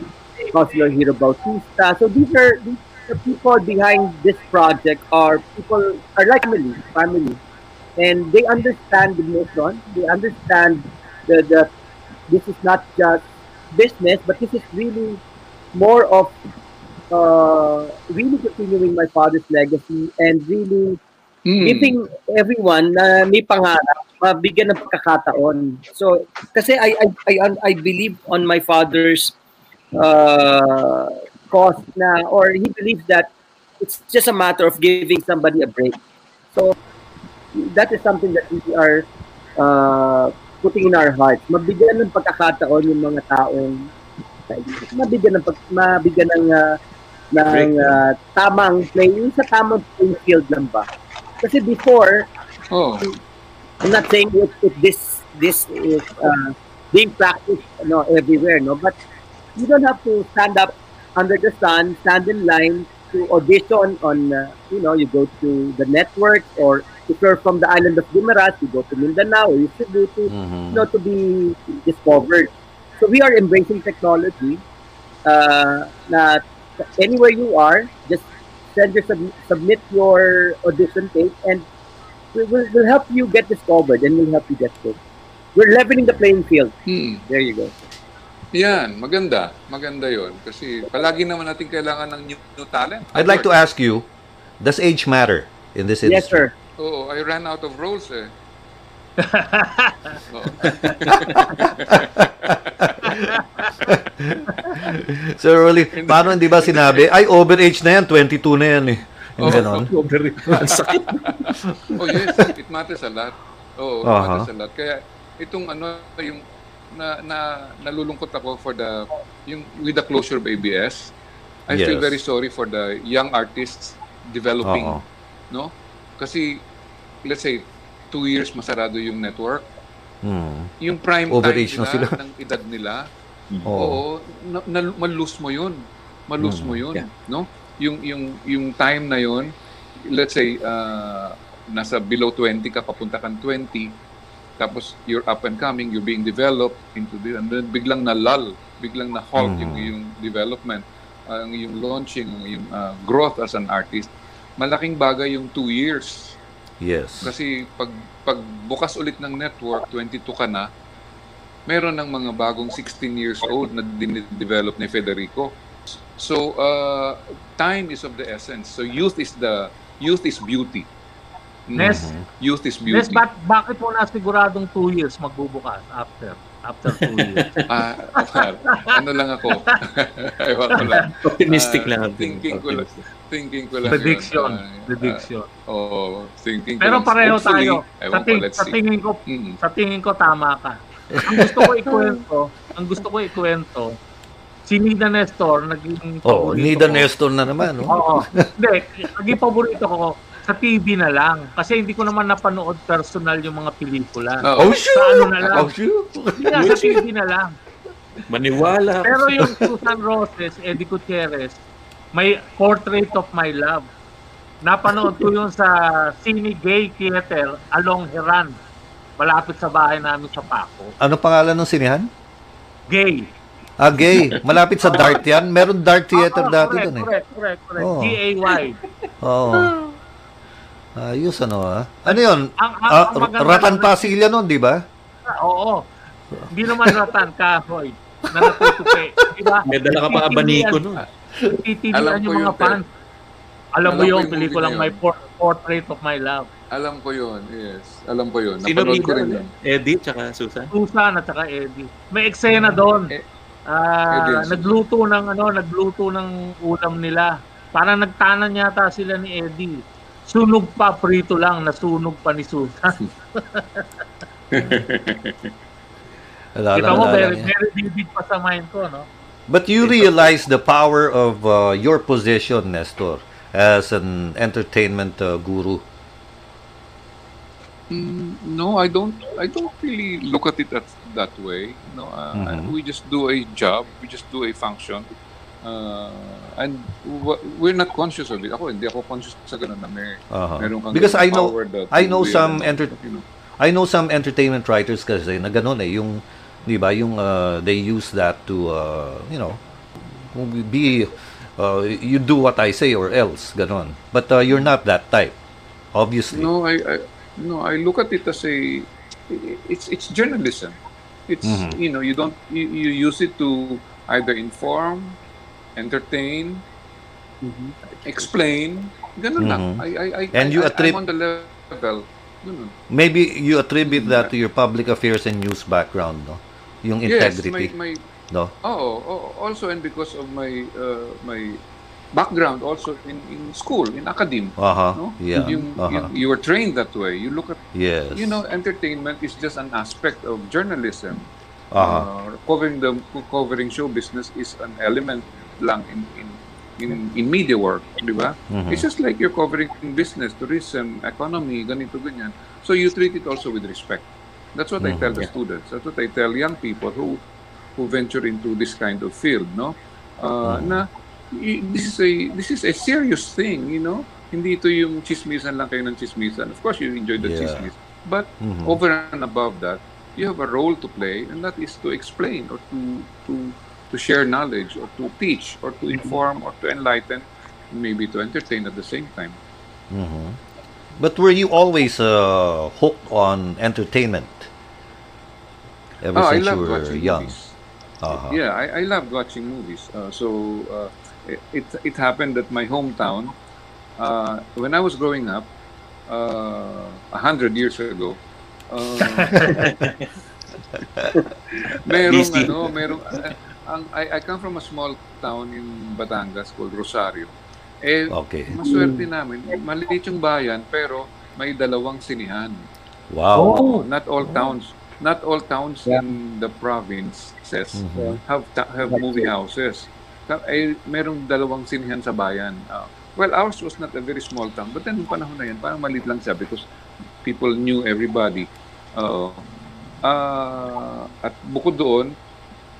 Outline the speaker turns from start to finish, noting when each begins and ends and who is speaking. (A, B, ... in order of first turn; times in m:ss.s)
0:00.4-0:07.4 A
0:08.0-0:11.7 A
0:12.3-0:15.2 A
0:15.7-0:16.3 A
0:17.1-0:21.0 A
0:21.5-0:21.9 B
0:21.6-0:29.3 A
0:29.9-0:36.0 A
0:37.5-0:43.9 A
0:44.5-0:46.8 A
0:47.3-0:50.9 A
0:47.5-0:48.0 C
0:51.4-0:52.3 A
0:52.7-0:53.1 B
0:53.8-0:59.0 A
0:59.6-1:14.6 A
1:10.3-1:10.9 D
1:15.2-1:21.6 A
1:22.3-1:25.0 A
1:25.5-1:26.7 A
1:26.9-1:27.2 B
1:27.3-1:27.7 A
1:28.5-1:33.5 B
1:33.1-1:34.1 D
1:34.6-1:36.4 D
1:36.0-1:36.5 A
1:36.8-1:38.3 B
1:39.2-1:40.2 E
1:40.3-1:42.7 B
1:40.6-1:41.6 C
1:42.2-1:49.9 D
1:43.1-1:43.7 E
1:45.9-1:47.1 B
1:49.4-1:49.9 B
1:49.4-1:51.5 C
1:50.5-2:01.1 B
1:54.0-1:54.5 D
2:01.7-2:06.6 B
2:01.7-2:02.2 D
2:04.6-2:05.0 D
2:07.2-2:09.6 B
2:10.2-2:10.7 D
2:10.8-2:13.1 B
2:11.3-2:12.2 D
2:13.6-2:14.0 D
2:13.7-2:23.9 B
2:16.4-2:16.8 D
2:24.6-2:36.4 B
2:29.4-2:29.9 D
2:36.8-2:37.3 D
2:37.2-2:40.7 B
2:41.7-2:50.9 B
2:51.7-2:53.2 B
2:51.8-2:52.1 E
2:51.8-2:52.2 D
2:52.9-2:57.5 E
2:56.9-2:57.7 C
2:57.7-3:09.6 B
2:58.7-2:58.9 E
3:00.8-3:01.1 E
3:01.2-3:02.9 C
3:03.8-3:05.5 E
3:06.8-3:13.9 E
3:14.6-3:17.1 E
3:16.2-3:18.5 D
3:17.9-3:25.7 E
3:24.4-3:24.8 B
3:24.6-3:26.9 D
3:26.4-3:27.5 E
3:26.6-3:26.9 C
3:28.3-3:29.6 C
3:29.0-3:31.6 E
3:32.1-3:33.8 E
3:34.6-3:38.6 E
3:39.2-3:40.9 E
3:41.0-3:42.1 D
3:42.9-3:43.3 E
3:43.8-3:47.1 D
3:46.1-3:48.8 E
3:47.8-3:48.2 D
3:49.2-3:49.7 D
3:51.0-3:54.8 D
3:52.1-3:54.1 E
3:55.4-3:55.8 E
3:56.4-3:57.1 D
3:56.5-4:00.8 E
3:58.3-3:59.0 D
3:59.6-4:01.0 C
4:01.5-4:02.8 E
4:01.9-4:02.8 B
4:03.8-4:06.5 E
4:03.8-4:05.0 B
4:06.7-4:09.5 B
4:08.6-4:10.7 C
4:10.7-4:13.1 E
4:12.5-4:13.2 B
4:13.7-4:23.8 E
4:14.1-4:14.8 B
4:24.5-4:25.5 B
4:26.5-4:27.5 D
4:26.7-4:29.1 E
4:29.5-4:35.8 D
4:37.9-4:45.1 B
4:42.3-4:42.7 D
4:45.6-4:53.2 B
4:50.3-4:52.9 D
4:53.6-4:59.6 D
5:00.2-5:05.4 D
5:05.9-5:06.5 D
5:06.3-5:10.8 B
5:11.3-5:15.2 B
5:11.4-5:11.8 D
5:15.8-5:16.6 B
5:17.4-5:17.7 A
5:18.0-5:22.7 B
5:19.4-5:21.0 D
5:22.9-5:27.7 D
5:23.9-5:24.3 B
5:27.0-5:28.0 B
5:28.6-5:31.6 B
5:32.1-5:57.2 B
5:34.6-5:36.1 D
5:37.7-5:38.4 D
5:41.7-5:42.1 D
5:48.5-5:48.9 D
5:54.8-5:55.2 D
5:57.8-6:19.4 B
6:00.4-6:00.8 D
6:07.2-6:07.7 D
6:08.4-6:08.8 D
6:19.9-6:20.4 D
6:21.0-6:24.5 D
6:26.0-6:27.3 D
6:26.1-6:27.5 B
6:28.0-6:28.4 D
6:28.1-6:33.4 B
6:34.0-6:35.5 B
6:36.1-6:38.2 B
6:38.7-6:39.6 B
6:39.3-6:39.6 D
6:39.4-6:40.1 C
6:41.8-6:52.6 B
6:42.1-6:42.5 C
6:48.1-6:48.6 D
6:48.6-6:49.0 A
6:53.1-6:53.7 D
6:53.3-6:54.5 A
6:53.4-7:06.6 B
6:57.7-6:58.2 D
6:58.8-6:59.3 A
7:07.2-7:09.4 B
7:10.0-7:12.1 B